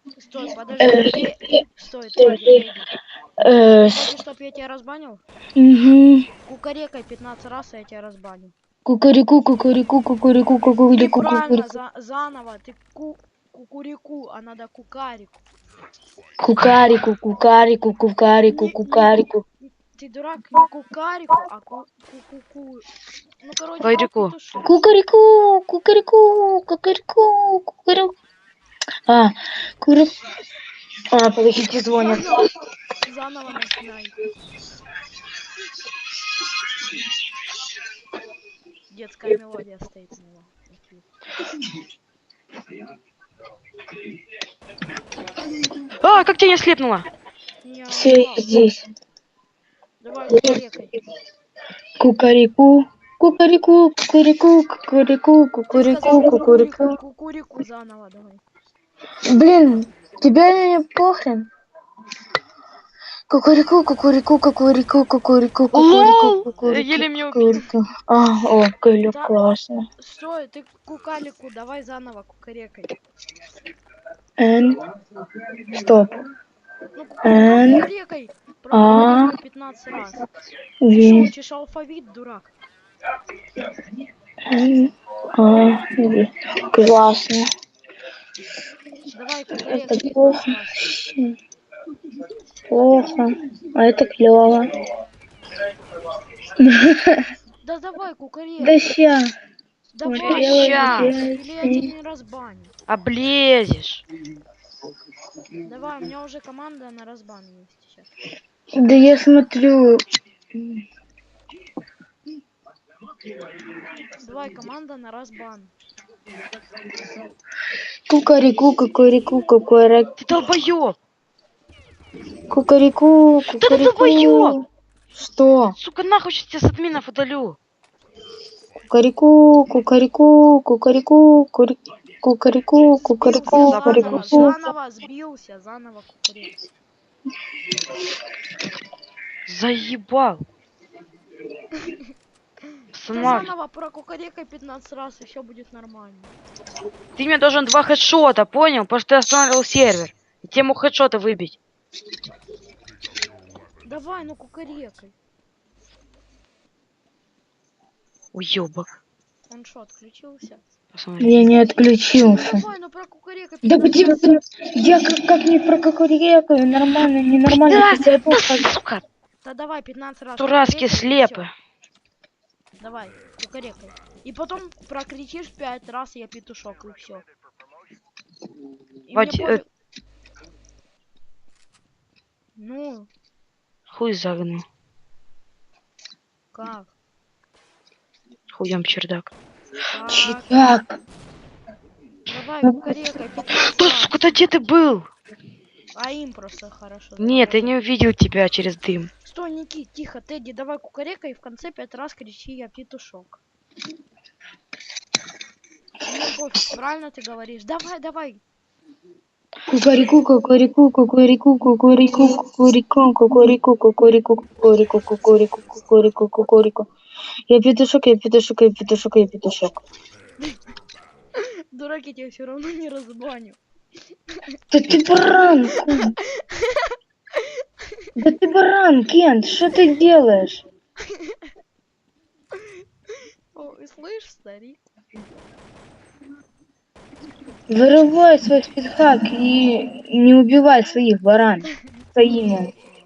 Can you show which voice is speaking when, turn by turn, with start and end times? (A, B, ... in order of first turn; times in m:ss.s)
0:00.2-0:02.9 A
0:00.8-0:01.2 B
0:02.2-0:02.6 B
0:03.4-0:04.1 B
0:03.9-0:05.2 A
0:05.6-0:06.2 B
0:06.4-0:08.5 A
0:08.8-0:11.8 B
0:10.9-0:15.4 A
0:16.4-0:19.4 B
0:18.5-0:22.8 A
0:23.4-0:24.8 A
0:23.8-0:24.3 C
0:24.6-0:28.1 B
0:29.1-0:30.1 B
0:31.1-0:32.4 B
0:32.0-0:32.5 A
0:33.0-0:34.2 A
0:36.4-0:37.2 B
0:38.9-0:41.0 A
0:41.4-0:41.8 B
0:46.0-0:47.1 C
0:47.6-0:48.6 A
0:47.9-0:48.8 B
0:50.0-0:50.9 A
0:50.3-0:50.6 B
0:52.0-0:57.0 B
0:55.7-0:58.4 A
0:59.3-1:01.5 B
1:03.3-1:09.8 B
1:05.7-1:07.6 C
1:09.1-1:09.4 A
1:10.0-1:13.0 A
1:14.4-1:14.8 B
1:15.5-1:16.1 B
1:16.9-1:20.2 A
1:17.2-1:17.9 B
1:18.7-1:19.3 B
1:20.8-1:21.3 B
1:20.9-1:22.5 A
1:24.5-1:27.5 B
1:29.1-1:30.9 A
1:29.6-1:31.3 B
1:32.7-1:34.7 B
1:36.6-1:37.2 B
1:37.6-1:38.9 A
1:38.6-1:39.3 B
1:39.9-1:42.7 A
1:40.0-1:41.9 B
1:40.2-1:41.1 C
1:42.9-1:44.0 C
1:45.6-1:48.1 A
1:48.8-1:50.0 B
1:50.5-1:50.8 B
1:54.2-1:55.7 A
1:58.1-2:00.1 B
2:00.2-2:01.0 C
2:02.5-2:05.8 B
2:03.5-2:04.6 C
2:05.8-2:07.6 C
2:08.9-2:14.6 B
2:13.0-2:16.5 A
2:13.5-2:14.5 C
2:19.5-2:20.4 C
2:21.7-2:22.0 A
2:22.7-2:26.3 A
2:22.9-2:23.5 C
2:27.2-2:31.6 C
2:33.8-2:35.1 A
2:38.3-2:39.0 C
2:39.5-2:40.6 A
2:40.9-2:41.5 C
2:41.2-2:42.6 B
2:42.1-2:44.2 A
2:43.6-2:48.7 B
2:47.5-2:49.0 C
2:49.4-2:51.5 A
2:50.4-2:51.5 C
2:52.8-2:57.2 A
2:59.1-2:59.7 A
2:59.1-2:59.6 C
3:02.6-3:03.1 A
3:03.9-3:04.6 C
3:06.5-3:06.9 A
3:08.5-3:09.3 C
3:09.9-3:10.6 A
3:10.1-3:11.0 B
3:12.3-3:14.1 A
3:12.6-3:13.0 B
3:13.7-3:15.1 C
3:15.9-3:17.8 A
3:17.2-3:19.1 C
3:19.2-3:23.4 A
3:26.0-3:28.4 A
3:29.7-3:36.9 B
3:37.5-3:39.8 B
3:41.4-3:43.6 A
3:44.7-3:46.1 B
3:45.7-3:46.9 A
3:48.2-3:50.6 B
3:51.0-3:51.5 A
3:53.5-3:54.8 A
3:57.7-4:02.7 B